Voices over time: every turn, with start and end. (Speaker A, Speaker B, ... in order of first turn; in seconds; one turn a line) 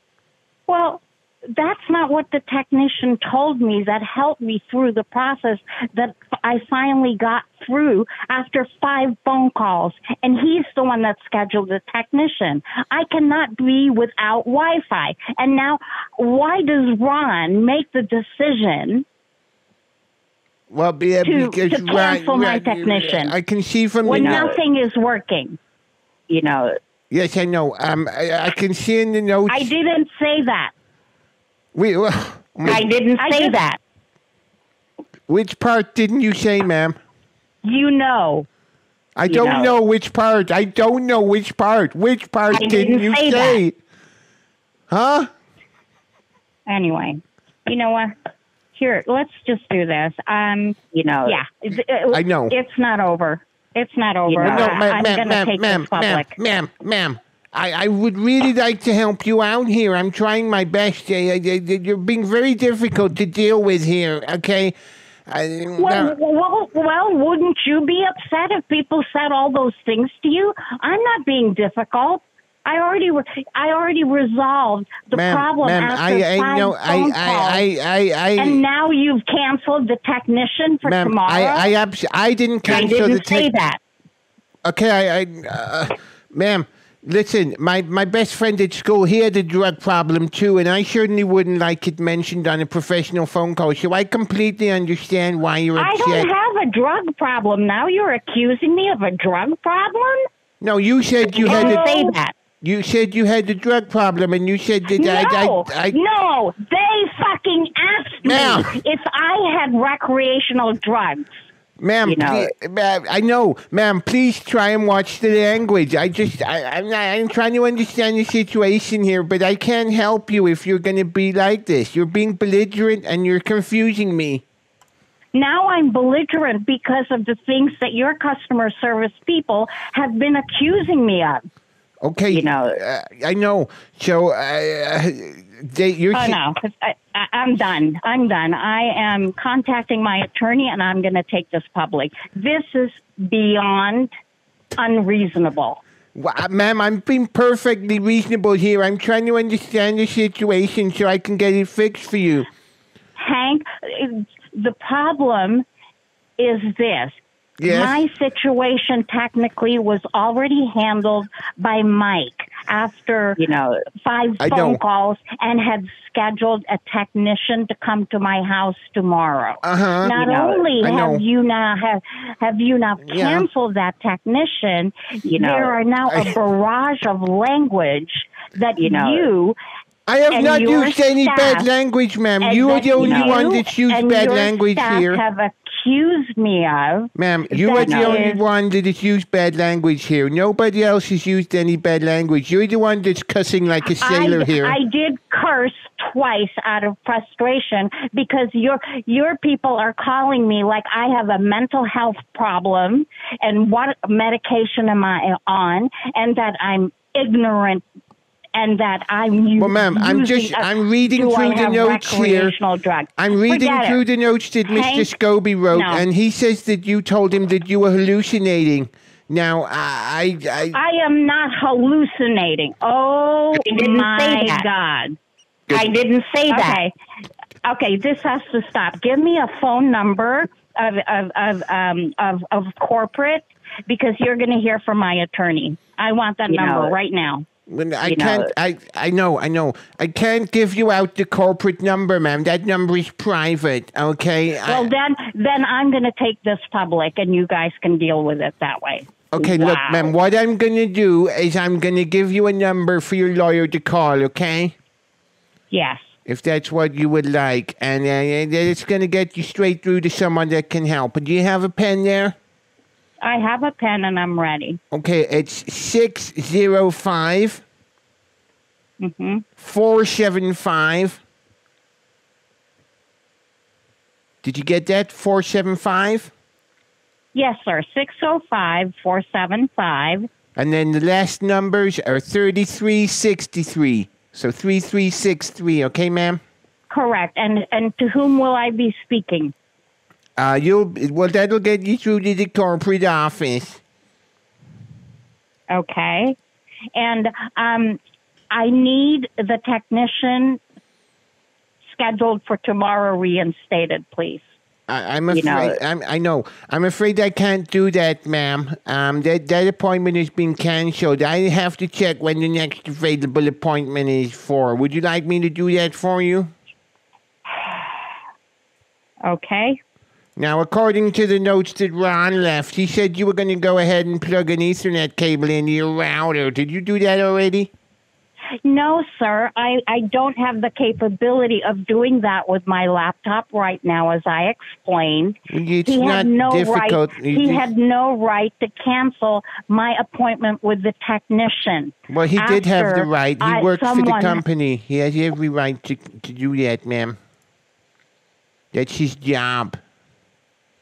Speaker A: 0.7-19.0
Speaker B: 20.7-24.5
Speaker A: 21.2-23.3
Speaker A: 24.0-25.6
Speaker C: 24.1-24.5
Speaker C: 26.3-26.8
Speaker B: 27.1-29.7
Speaker A: 29.5-30.7
Speaker B: 31.7-32.9
Speaker C: 32.6-33.8
Speaker A: 33.2-33.6
Speaker B: 35.3-37.0
Speaker A: 37.6-38.5
Speaker B: 39.1-43.8
Speaker C: 39.3-39.7
Speaker C: 42.5-43.6
Speaker B: 44.9-45.3
Speaker A: 46.7-48.1
Speaker A: 48.7-56.4
Speaker C: 50.9-51.4
Speaker B: 52.1-52.5
Speaker C: 54.3-54.8
Speaker B: 54.4-64.8
Speaker B: 65.3-66.1
Speaker A: 65.8-77.6
Speaker B: 75.1-78.6
Speaker A: 78.4-81.7
Speaker B: 80.8-83.5
Speaker A: 82.7-83.4
Speaker C: 82.7-83.7
Speaker B: 84.6-96.3
Speaker A: 95.8-100.2
Speaker B: 100.6-101.9
Speaker A: 101.3-102.2
Speaker C: 101.3-102.3
Speaker B: 102.6-106.0
Speaker A: 104.9-111.3
Speaker B: 108.2-108.7
Speaker B: 111.8-124.4
Speaker C: 112.0-112.5
Speaker A: 125.3-131.4
Speaker B: 132.0-136.4
Speaker C: 132.3-132.8
Speaker A: 136.1-144.1
Speaker A: 144.8-145.8
Speaker B: 146.1-152.5
Speaker A: 153.2-155.6
Speaker A: 156.4-163.4
Speaker B: 157.6-158.0
Speaker C: 163.4-163.8
Speaker A: 164.0-179.6
Speaker B: 164.4-164.8
Speaker B: 169.6-170.1
Speaker C: 170.1-170.6
Speaker B: 170.8-171.2
Speaker B: 173.0-173.5
Speaker C: 175.3-175.7
Speaker C: 178.8-179.3
Speaker B: 180.1-185.2
Speaker A: 180.3-181.7
Speaker A: 182.4-188.4
Speaker C: 183.0-183.3
Speaker B: 187.2-194.8
Speaker C: 187.8-188.2
Speaker A: 194.0-207.8
Speaker A: 208.5-214.0
Speaker B: 209.6-212.5
Speaker B: 213.2-220.8
Speaker A: 214.7-215.1
Speaker A: 215.7-216.1
Speaker A: 220.7-225.2
Speaker C: 223.6-224.7
Speaker C: 225.7-226.8
Speaker A: 226.5-226.9
Speaker A: 227.6-237.4
Speaker C: 236.5-236.9
Speaker B: 237.7-244.9
Speaker C: 238.0-238.5
Speaker A: 244.6-250.1
Speaker B: 249.3-254.7
Speaker A: 255.7-256.1
Speaker B: 256.3-262.4
Speaker A: 263.2-264.8
Speaker B: 264.9-267.6
Speaker A: 269.0-269.4
Speaker B: 269.6-271.2
Speaker B: 274.4-276.3
Speaker A: 277.3-280.3
Speaker B: 280.6-286.4
Speaker A: 286.9-289.5
Speaker B: 290.4-293.8
Speaker A: 295.7-296.4
Speaker A: 296.9-298.0
Speaker A: 298.5-300.6
Speaker A: 301.8-304.5
Speaker B: 304.9-316.5
Speaker C: 305.3-305.8
Speaker A: 317.5-317.9
Speaker A: 319.2-319.8
Speaker B: 320.4-327.7
Speaker A: 328.6-344.4
Speaker B: 335.5-337.6
Speaker B: 342.1-347.2
Speaker B: 348.7-349.8